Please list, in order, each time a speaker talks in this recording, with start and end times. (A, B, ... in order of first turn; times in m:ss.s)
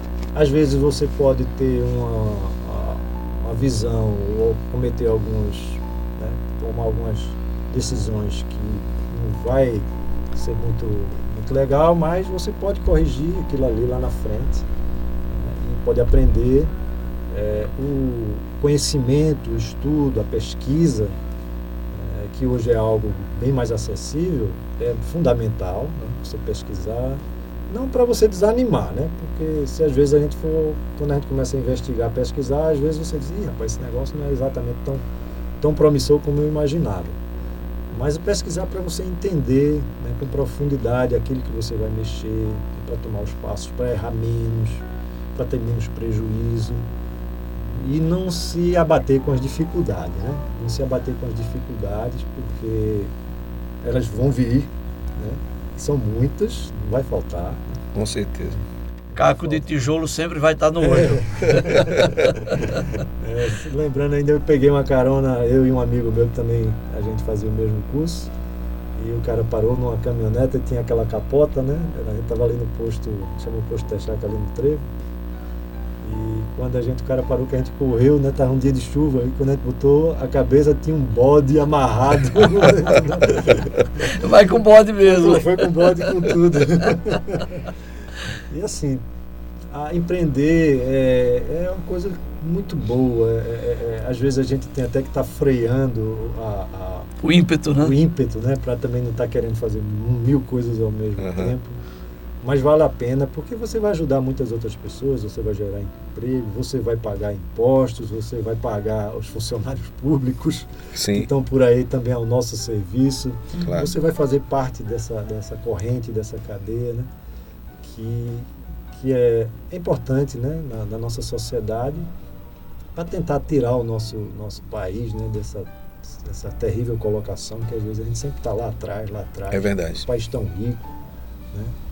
0:00.3-0:14.7 A
0:15.3-0:16.7 A
0:17.3-0:21.2 A
0:21.9-0:35.0 A
0:35.6-0:37.2 A
0:37.9-0:46.9 A
0:47.6-0:53.1 A
0:53.8-0:57.8 A
0:58.0-0:58.6 B
0:58.5-0:59.6 A
0:59.2-1:01.6 C
1:00.8-1:08.3 A
1:01.5-1:02.0 B
1:09.0-1:14.8 A
1:16.0-1:24.2 A
1:24.1-1:26.1 C
1:25.0-1:27.6 A
1:28.5-1:29.0 A
1:29.7-1:37.1 A
1:37.2-1:38.0 C
1:37.8-1:41.8 A
1:41.2-1:41.6 B
1:42.4-1:57.1 A
1:50.9-1:51.3 B
1:53.6-1:53.9 B
1:57.8-2:02.1 A
2:03.0-2:10.9 A
2:09.5-2:10.1 B